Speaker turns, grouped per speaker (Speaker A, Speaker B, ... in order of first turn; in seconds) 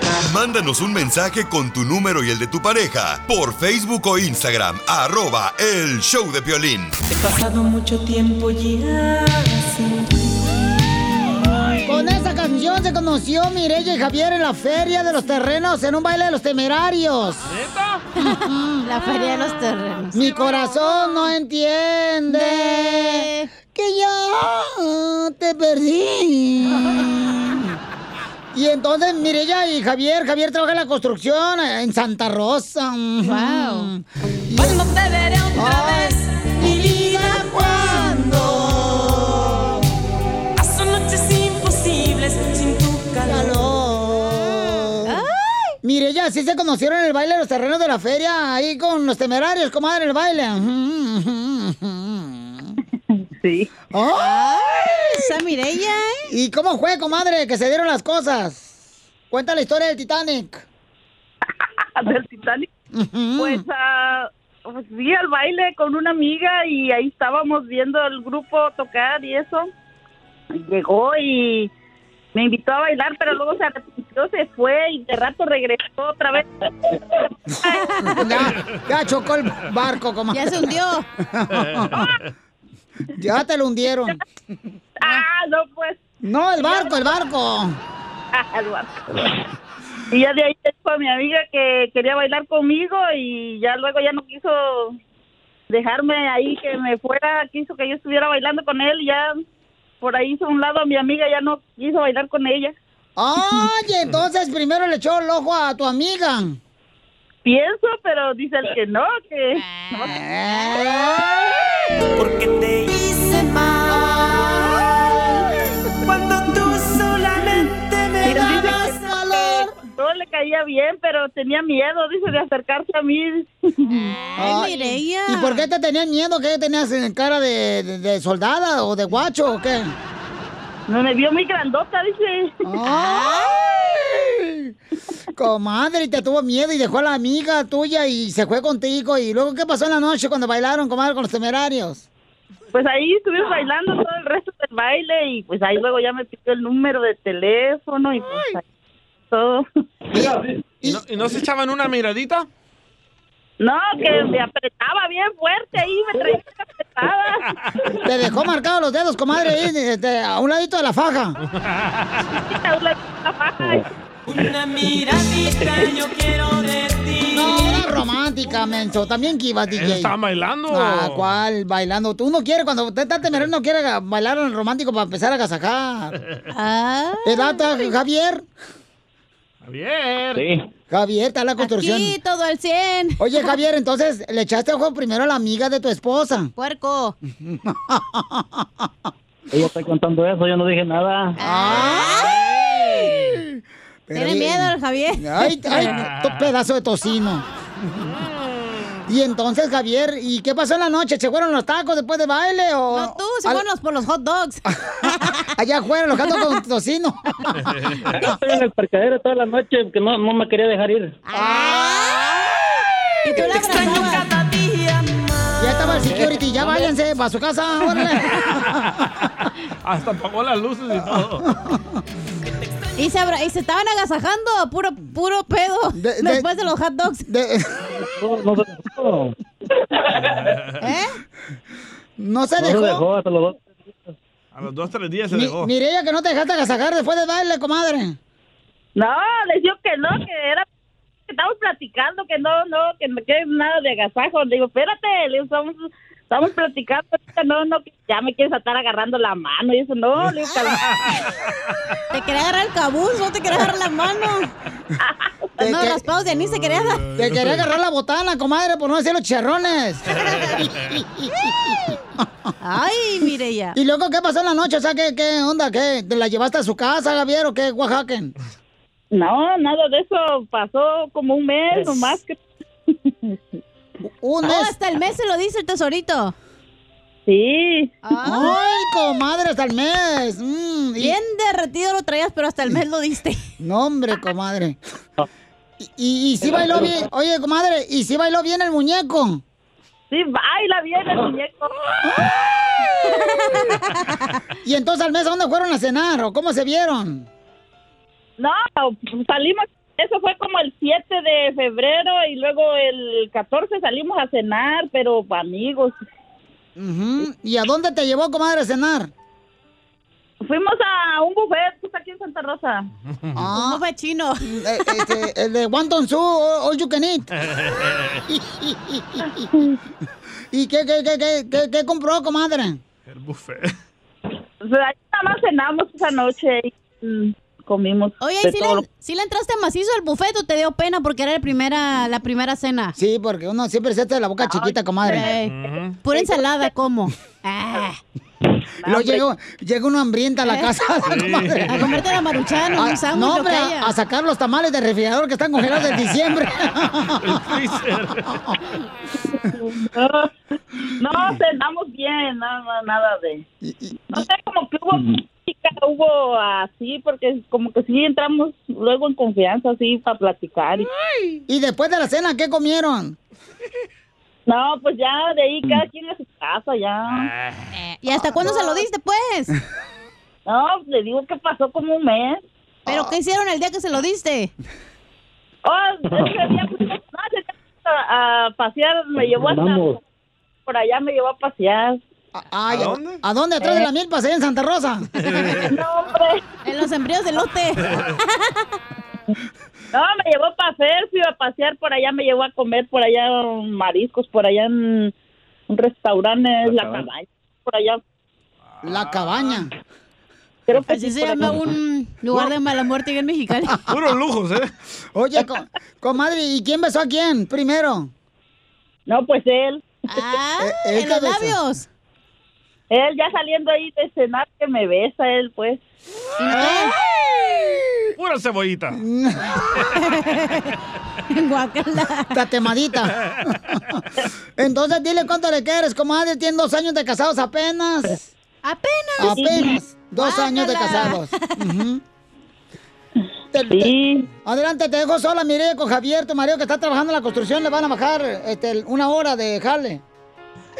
Speaker A: 0.2-6.9
Speaker B: 7.5-9.3, 40.6-43.3, 112.3-113.2, 117.8-118.1, 165.1-167.6, 214.3-215.1
Speaker C: 11.9-17.5, 18.2-18.9, 20.1-27.8, 28.5-34.9, 35.5-39.7, 43.3-45.2, 45.8-52.8, 53.9-55.2, 56.3-58.8, 59.3-60.6, 62.9-63.6, 78.1-82.1, 83.1-84.2, 86.2-87.8, 103.2-106.6, 110.1-111.6, 113.9-115.7, 118.2-119.7, 124.3-129.9, 132.6-134.7, 135.3-142.1, 150.1-151.0, 158.0-161.4, 167.3-170.1, 170.7-176.2, 177.2-178.4, 180.9-182.2, 183.2-186.5, 187.4-188.7, 191.4-197.4, 199.1-203.6, 204.8-207.6, 211.3-212.2, 213.3-213.9, 215.6-218.8, 221.6-221.8, 225.9-226.5, 227.3-227.9, 232.2-233.0, 235.3-238.2, 255.6-256.0, 257.1-261.8, 263.7-268.3, 274.1-274.7, 278.2-281.2, 283.6-284.8, 285.8-289.4, 293.1-293.6, 294.6-297.3, 306.8-309.1, 313.3-313.8, 314.4-317.3, 318.3-319.5, 320.5-322.8, 332.9-335.3, 338.9-342.0, 342.8-347.4, 353.6-354.2, 361.5-363.1, 382.3-385.1, 398.8-399.7, 405.1-408.1, 410.6-411.6, 416.6-418.0, 418.9-419.8, 422.3-424.0, 424.6-428.2, 429.2-432.0, 433.5-440.0
Speaker D: 17.5-18.0, 78.4-78.8, 81.5-82.2, 150.8-152.5, 161.6-162.2, 169.7-171.4, 179.6-180.4, 192.7-193.3, 195.8-196.3, 207.6-208.1, 219.8-221.5, 230.3-230.8, 234.5-235.7, 250.8-251.3, 256.3-257.7, 260.1-260.7, 313.1-313.4, 317.4-318.2, 323.1-323.7, 335.4-336.0, 341.0-341.9, 347.2-348.4, 382.7-383.2, 385.2-385.7, 398.8-399.6, 403.9-404.7, 418.2-419.0
Speaker E: 18.2-21.2, 22.3-23.5, 33.2-33.9, 37.1-37.5, 45.0-45.8, 54.1-56.3, 77.7-78.2, 80.3-81.0, 109.7-110.8, 123.9-125.6, 132.8-133.6, 176.5-177.8, 181.6-183.5, 186.6-187.2, 191.4-192.4, 194.1-195.9, 202.9-205.5, 211.3-212.5, 213.2-214.3, 222.9-227.2, 230.8-231.1, 252.1-254.5, 255.6-257.1, 262.6-263.8, 274.4-276.3, 278.0-278.6, 281.0-283.4, 293.1-294.4, 313.5-314.4, 328.2-332.9, 335.0-338.0, 341.7-343.9, 367.7-369.5, 372.9-374.5, 386.6-388.6, 400.9-403.8, 410.1-411.9, 416.4-416.9, 419.9-420.7, 421.3-422.3, 428.6-431.6
Speaker F: 53.2-53.7, 61.6-62.7, 63.4-69.7, 70.5-71.7, 72.3-77.9, 85.0-86.0, 86.6-87.1, 88.3-89.3, 90.1-95.0, 95.7-99.4, 100.0-102.7, 107.4-110.2, 118.2-118.8, 120.0-124.2, 130.9-132.5, 142.7-148.6, 149.3-149.7, 153.6-157.5, 162.4-163.8, 238.9-240.7, 241.3-250.8, 255.0-255.5, 269.1-272.4, 272.9-273.4, 277.3-277.9, 290.1-292.1, 298.4-306.0, 310.4-312.9, 324.6-328.8, 334.4-335.3, 336.1-336.5, 338.8-339.2, 349.3-350.3, 351.0-353.4, 354.1-360.9, 364.5-367.3, 370.5-372.4, 375.6-380.0, 380.7-382.0, 385.7-386.4, 389.9-395.1, 395.7-398.0, 400.7-401.5, 409.1-409.9, 412.9-415.8, 429.3-429.6, 433.7-434.3
Speaker G: 180.3-180.7, 189.5-191.4, 208.2-211.2, 227.9-229.3, 232.6-233.6, 354.9-355.2, 376.1-376.5, 379.2-380.0, 396.6-397.0